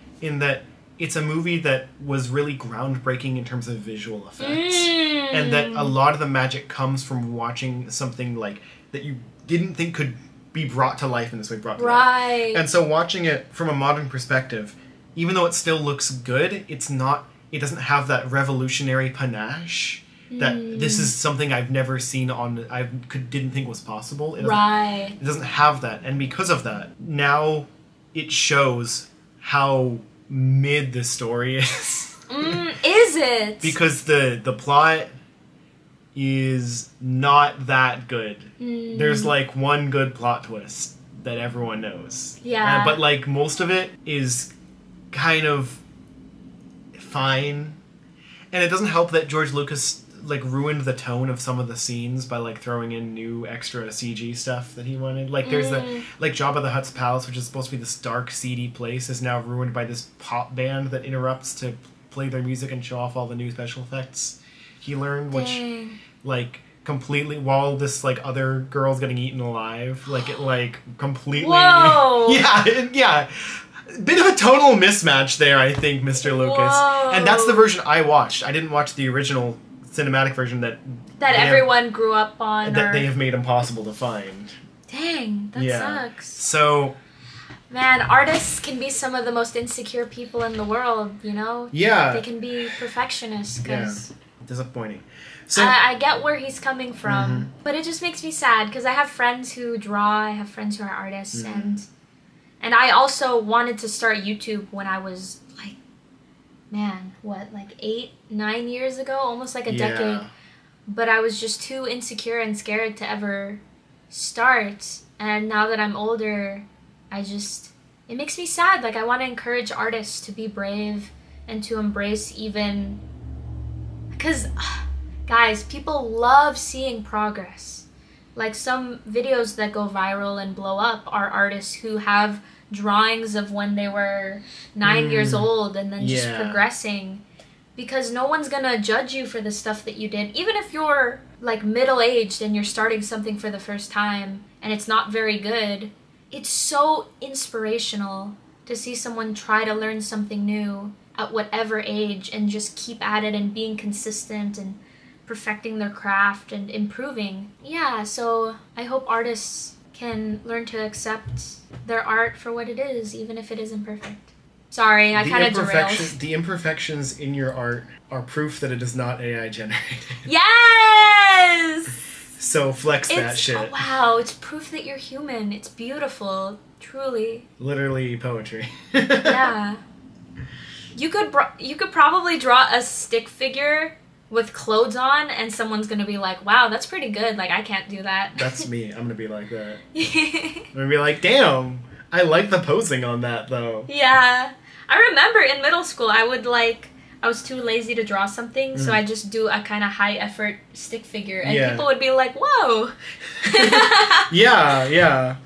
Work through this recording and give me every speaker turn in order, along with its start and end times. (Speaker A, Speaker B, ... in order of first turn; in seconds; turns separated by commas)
Speaker A: 0.2-24.6, Speaker B: 4.4-5.9, Speaker B: 11.8-12.6, Speaker B: 20.3-21.1, Speaker B: 24.4-25.1, Speaker A: 25.2-32.2, Speaker B: 32.3-33.7, Speaker A: 33.6-35.1, Speaker A: 36.1-44.5, Speaker B: 38.6-39.3, Speaker B: 42.4-43.0, Speaker A: 45.1-45.8, Speaker A: 46.9-47.8, Speaker A: 48.5-65.6, Speaker B: 55.4-56.0, Speaker B: 65.3-66.0, Speaker A: 66.2-81.7, Speaker B: 71.3-72.4, Speaker B: 76.2-77.7, Speaker B: 81.2-83.1, Speaker A: 82.6-84.5, Speaker B: 84.9-86.4, Speaker A: 85.5-87.0, Speaker B: 87.7-94.1, Speaker A: 91.7-92.3, Speaker A: 93.6-95.8, Speaker B: 95.5-101.9, Speaker A: 97.0-97.5, Speaker A: 101.3-101.8, Speaker B: 102.6-105.8, Speaker B: 106.7-110.2, Speaker A: 109.7-110.3, Speaker B: 110.9-123.0, Speaker B: 124.1-137.2, Speaker A: 134.8-136.6, Speaker B: 137.8-166.1, Speaker A: 165.1-170.2, Speaker B: 170.2-171.9, Speaker A: 172.4-173.8, Speaker B: 173.1-177.4, Speaker A: 177.6-179.4, Speaker B: 179.2-179.8, Speaker B: 180.9-188.7, Speaker A: 188.3-189.8, Speaker B: 189.9-190.7, Speaker A: 190.7-193.9, Speaker B: 193.9-204.3, Speaker A: 198.7-199.0, Speaker A: 201.4-201.8, Speaker A: 203.4-205.4